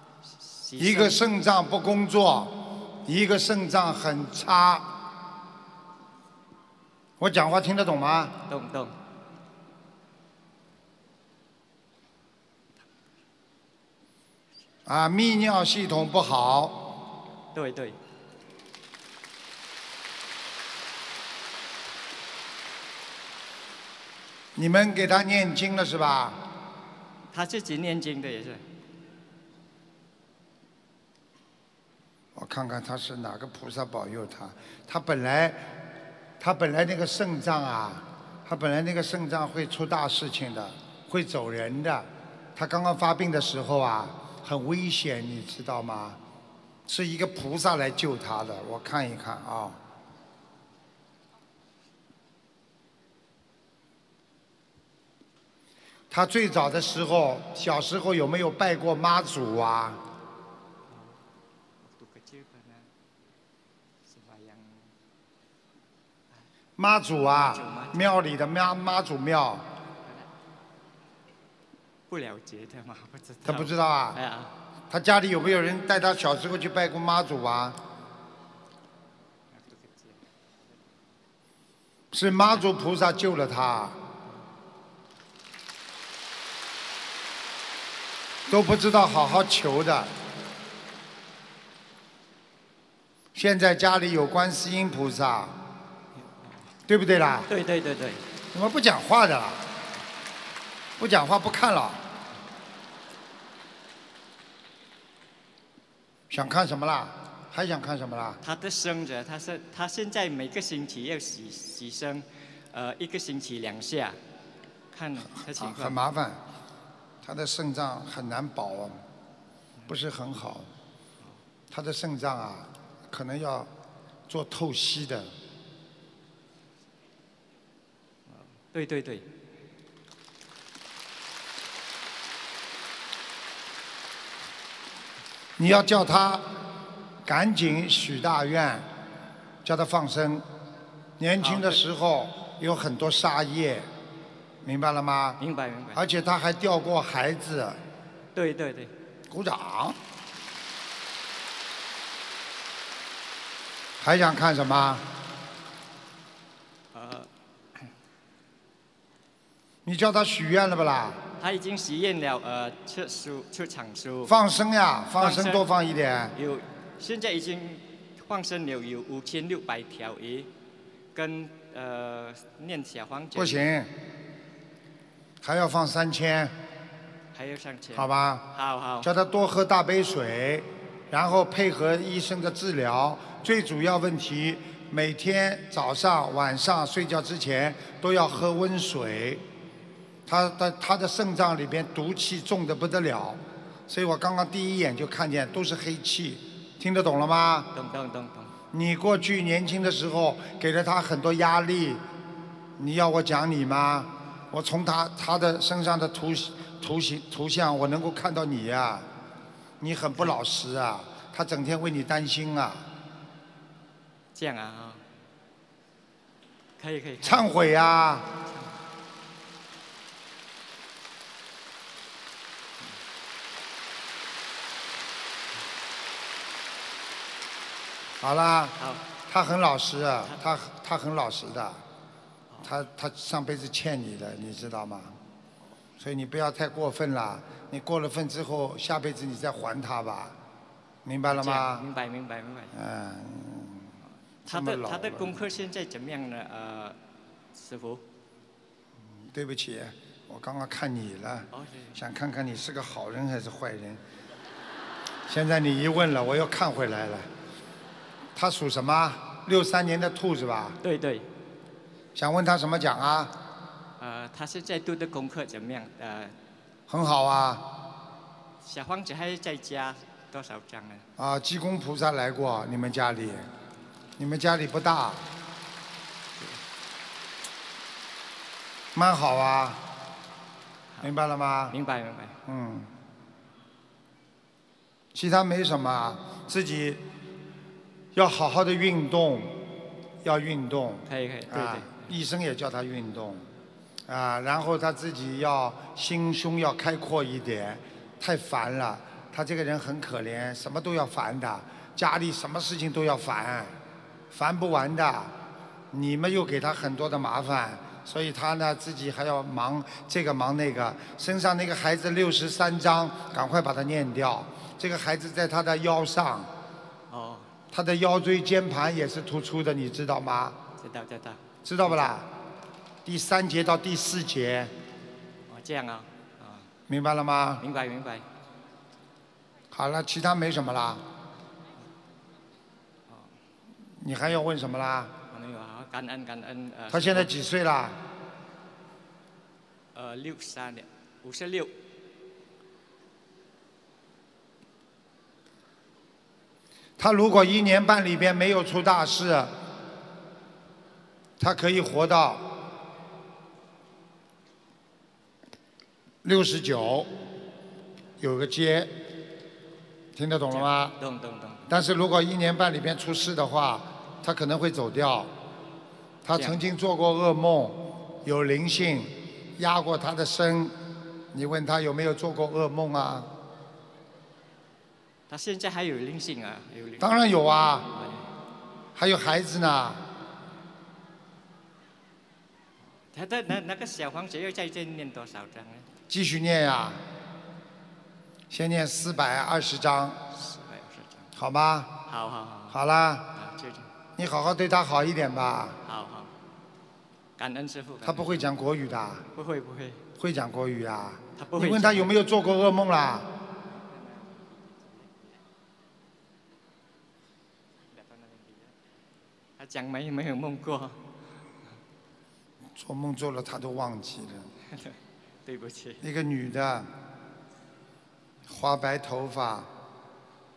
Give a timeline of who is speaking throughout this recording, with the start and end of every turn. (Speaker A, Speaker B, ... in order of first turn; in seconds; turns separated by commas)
Speaker A: 0.4-1.2, Speaker B: 0.8-4.9, Speaker B: 7.2-8.4, Speaker A: 8.5-8.9, Speaker B: 14.9-16.9, Speaker A: 17.5-18.0, Speaker B: 24.6-26.4, Speaker A: 27.3-28.6, Speaker B: 32.4-35.6, Speaker B: 36.4-46.2, Speaker B: 46.9-49.8, Speaker B: 56.1-60.0, Speaker A: 61.8-62.9, Speaker A: 64.1-64.9, Speaker B: 66.8-69.7, Speaker A: 67.4-68.1, Speaker A: 72.1-74.5, Speaker B: 73.5-74.2, Speaker B: 74.9-77.8, Speaker A: 79.5-80.2, Speaker B: 82.1-84.0, Speaker B: 88.5-90.1, Speaker B: 93.3-95.6, Speaker B: 96.9-97.5, Speaker A: 97.5-98.2, Speaker B: 98.5-99.7, Speaker B: 101.0-102.0, Speaker B: 106.3-108.4, Speaker A: 108.4-114.2, Speaker A: 114.9-116.0, Speaker B: 115.5-116.4, Speaker B: 117.2-119.0, Speaker B: 119.9-120.7, Speaker B: 121.7-123.7, Speaker B: 124.3-125.3, Speaker A: 128.3-129.3, Speaker B: 135.6-136.5, Speaker B: 137.2-138.9, Speaker B: 139.6-140.4, Speaker B: 141.2-143.9, Speaker A: 141.4-141.8, Speaker B: 144.6-145.4, Speaker A: 145.4-146.0, Speaker B: 145.9-147.8, Speaker A: 148.3-148.9, Speaker B: 149.3-150.0, Speaker B: 154.0-155.1, Speaker A: 156.9-157.3, Speaker B: 159.8-161.2, Speaker A: 161.4-164.3, Speaker B: 164.2-166.3, Speaker A: 165.2-165.7, Speaker A: 166.3-170.5, Speaker A: 171.1-173.6, Speaker B: 173.3-173.9, Speaker B: 175.4-176.6, Speaker A: 177.3-179.1, Speaker B: 177.9-178.5, Speaker B: 179.0-189.4, Speaker B: 190.3-197.7, Speaker A: 197.8-198.5, Speaker B: 198.7-202.0, Speaker B: 202.8-209.1, Speaker B: 209.8-212.9, Speaker A: 214.3-215.0, Speaker A: 216.8-217.5, Speaker B: 217.2-218.3, Speaker B: 228.2-231.8, Speaker A: 228.8-229.0, Speaker B: 232.6-235.2, Speaker B: 236.0-240.3, Speaker B: 241.1-241.9, Speaker A: 241.3-242.8, Speaker B: 242.7-243.9, Speaker B: 244.5-245.4, Speaker A: 244.5-247.0, Speaker A: 247.5-248.0, Speaker B: 249.2-254.0, Speaker A: 251.5-251.9, Speaker B: 255.3-257.3, Speaker B: 258.4-260.8, Speaker A: 260.8-261.3, Speaker B: 262.1-263.3, Speaker A: 264.0-266.3, Speaker B: 266.9-267.6, Speaker A: 268.6-271.1, Speaker B: 271.2-273.5, Speaker B: 274.2-275.2, Speaker B: 278.9-279.8, Speaker B: 281.0-281.8, Speaker A: 281.7-282.4, Speaker B: 282.5-282.9, Speaker B: 285.1-287.0, Speaker B: 288.1-289.6, Speaker B: 290.2-293.5, Speaker A: 291.1-292.1, Speaker B: 294.1-303.8, Speaker B: 304.3-305.3, Speaker B: 305.9-316.5, Speaker A: 317.1-317.5, Speaker B: 317.7-320.6, Speaker A: 320.8-322.1, Speaker B: 321.6-322.3, Speaker B: 323.0-324.7, Speaker A: 325.5-326.7, Speaker B: 326.9-327.6, Speaker A: 327.6-328.2, Speaker B: 329.7-331.0, Speaker B: 334.0-335.1, Speaker A: 335.3-337.3, Speaker B: 336.9-338.0, Speaker A: 339.9-341.7, Speaker B: 347.0-349.5, Speaker B: 351.4-352.5, Speaker B: 356.2-357.1, Speaker B: 358.2-358.9, Speaker B: 360.1-360.9, Speaker A: 360.5-361.7, Speaker B: 361.7-365.3, Speaker B: 366.2-370.8, Speaker A: 366.3-366.6, Speaker B: 371.3-373.3, Speaker A: 375.3-377.1, Speaker B: 377.0-377.9, Speaker A: 377.9-378.2, Speaker B: 379.0-380.0, Speaker A: 383.1-385.9, Speaker B: 386.1-387.0, Speaker B: 388.5-390.2, Speaker A: 390.4-391.3, Speaker B: 391.4-392.0, Speaker A: 392.1-392.8, Speaker B: 392.7-393.3, Speaker A: 393.4-393.9, Speaker B: 394.2-395.8, Speaker A: 395.9-396.3, Speaker A: 397.4-398.4, Speaker B: 398.0-399.2, Speaker A: 399.4-400.0, Speaker B: 400.2-403.3, Speaker A: 401.4-402.1, Speaker A: 403.7-405.4, Speaker A: 407.9-408.7, Speaker A: 409.6-411.0, Speaker B: 412.8-414.5, Speaker A: 415.4-416.0, Speaker B: 416.0-416.9, Speaker B: 418.5-419.7